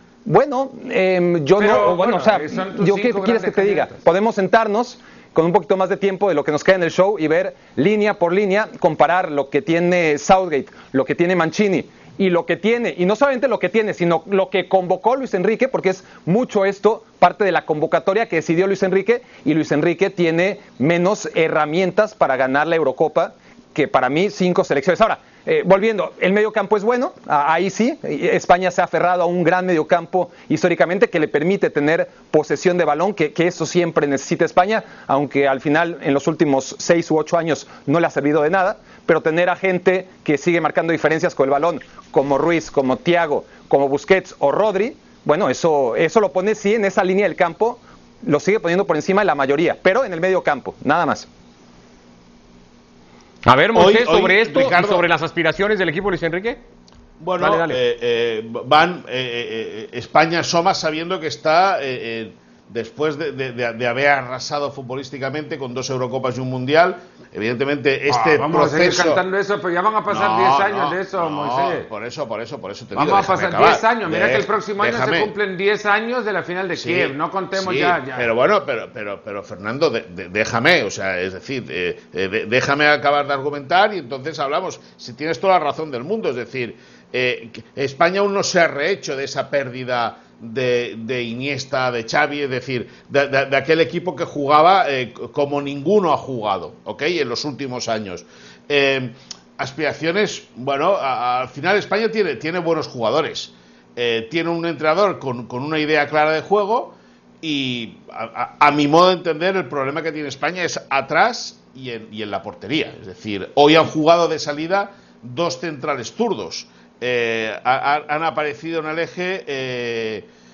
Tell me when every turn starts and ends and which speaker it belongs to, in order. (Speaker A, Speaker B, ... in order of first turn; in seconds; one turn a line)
Speaker A: 0.2-51.3
Speaker B: 1.6-4.0
Speaker C: 53.4-56.6
Speaker D: 53.7-55.1
Speaker D: 57.2-69.2
Speaker C: 57.4-57.8
Speaker B: 68.1-71.9
Speaker D: 70.1-75.3
Speaker B: 72.9-78.3
Speaker D: 76.8-120.2